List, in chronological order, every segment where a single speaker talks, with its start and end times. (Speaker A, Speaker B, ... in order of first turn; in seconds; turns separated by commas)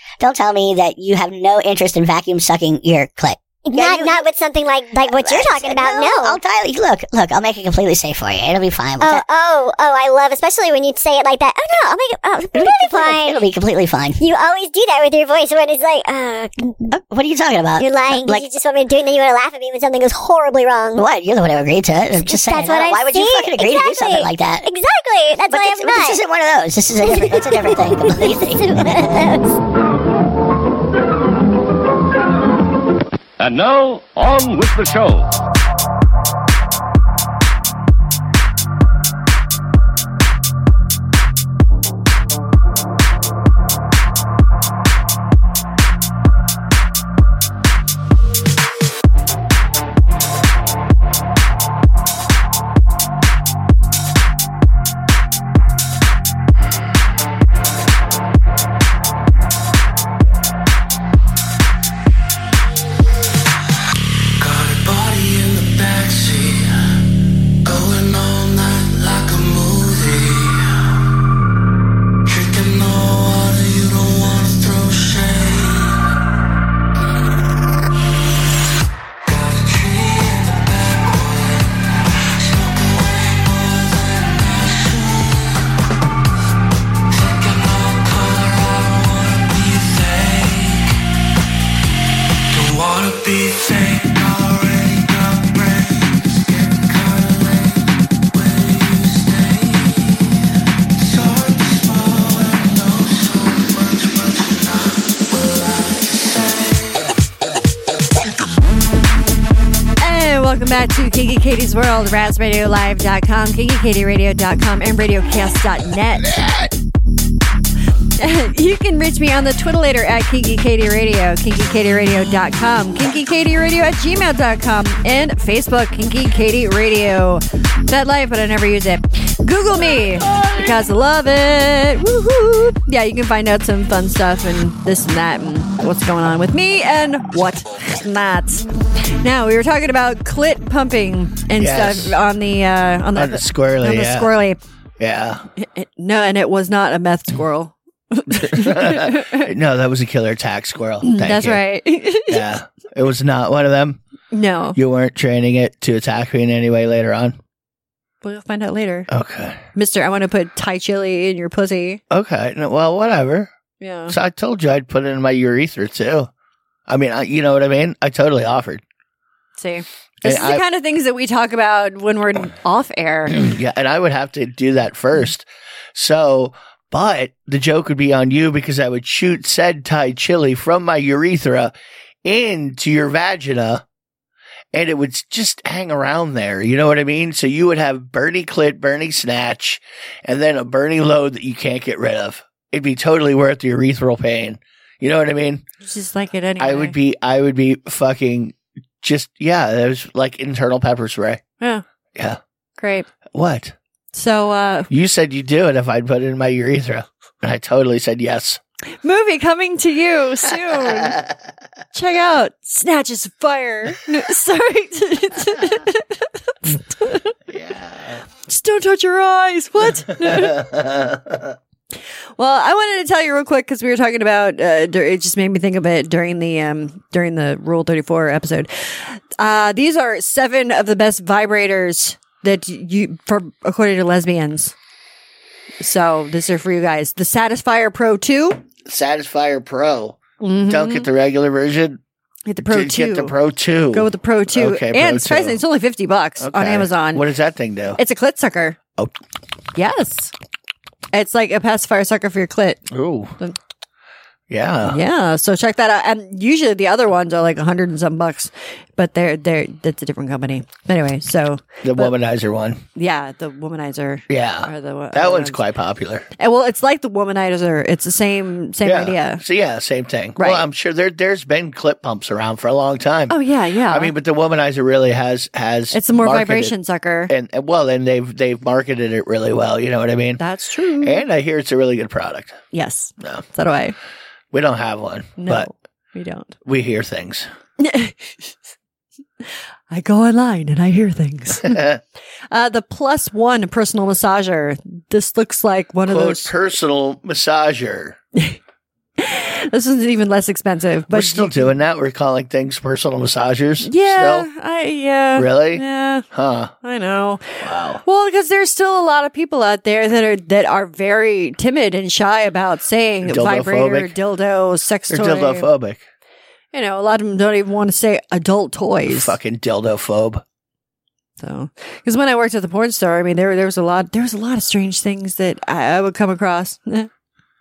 Speaker A: 0.2-4.2, Speaker B: 3.6-6.4, Speaker A: 5.1-9.2, Speaker B: 9.0-13.4, Speaker A: 12.6-14.2, Speaker B: 14.2-16.9, Speaker A: 16.9-18.4, Speaker B: 17.8-21.0, Speaker A: 21.0-24.7, Speaker B: 22.3-26.2, Speaker A: 25.5-29.1, Speaker B: 27.0-29.6, Speaker C: 33.4-35.3, Speaker D: 64.4-66.8, Speaker D: 67.6-70.7, Speaker D: 72.3-76.0, Speaker D: 79.2-81.8, Speaker D: 82.4-85.6, Speaker D: 87.1-91.0, Speaker D: 92.5-100.4, Speaker D: 101.0-107.0, Speaker E: 110.0-116.4, Speaker E: 118.2-138.7, Speaker E: 139.2-144.6, Speaker F: 141.6-142.2, Speaker F: 143.2-144.3, Speaker F: 145.0-145.4, Speaker E: 145.6-149.5, Speaker F: 148.3-151.6, Speaker E: 151.0-152.5, Speaker F: 152.3-154.0, Speaker E: 154.3-154.8, Speaker F: 154.8-157.4, Speaker E: 158.2-159.1, Speaker F: 159.1-159.6, Speaker E: 159.8-162.0, Speaker F: 162.1-163.5, Speaker E: 163.8-164.2, Speaker F: 164.1-166.3, Speaker F: 166.9-168.8, Speaker E: 169.6-173.5, Speaker F: 170.2-170.6, Speaker F: 173.3-181.7, Speaker F: 182.2-183.8, Speaker F: 184.7-195.6, Speaker E: 195.8-197.0, Speaker F: 196.6-201.4, Speaker E: 202.8-203.1, Speaker F: 203.3-203.8, Speaker E: 204.1-204.9, Speaker F: 204.9-208.6, Speaker E: 209.0-211.2, Speaker F: 210.7-211.3, Speaker E: 211.9-217.3, Speaker F: 217.5-218.2, Speaker E: 218.5-220.7, Speaker F: 220.1-221.6, Speaker E: 222.4-234.7, Speaker E: 235.8-238.6, Speaker F: 238.9-242.0, Speaker E: 240.4-241.1, Speaker E: 242.5-243.3, Speaker F: 242.7-245.6, Speaker E: 243.9-247.2, Speaker F: 246.4-248.0, Speaker E: 248.0-248.8, Speaker E: 249.8-250.3, Speaker E: 251.1-253.6, Speaker F: 252.9-253.4, Speaker F: 254.5-255.0, Speaker E: 254.8-262.1, Speaker F: 261.8-262.8, Speaker E: 262.9-265.6, Speaker F: 264.3-266.3, Speaker E: 266.4-269.4, Speaker F: 268.8-276.8, Speaker E: 270.4-270.6, Speaker E: 273.3-274.1, Speaker E: 275.9-277.3, Speaker F: 277.3-280.4, Speaker E: 280.4-281.2, Speaker F: 281.0-282.6, Speaker E: 282.7-283.9, Speaker F: 284.5-285.7, Speaker E: 285.4-286.6, Speaker F: 286.6-287.5, Speaker E: 287.8-288.5, Speaker E: 289.4-291.8, Speaker F: 291.6-292.0, Speaker E: 292.5-296.5, Speaker F: 296.1-298.2, Speaker E: 299.2-301.7, Speaker F: 301.1-304.5, Speaker E: 303.8-306.3, Speaker F: 305.4-306.7, Speaker E: 306.8-315.7, Speaker F: 307.6-308.0, Speaker F: 313.2-314.2, Speaker F: 315.1-316.1, Speaker E: 316.7-319.4, Speaker F: 319.1-320.4, Speaker E: 321.4-327.1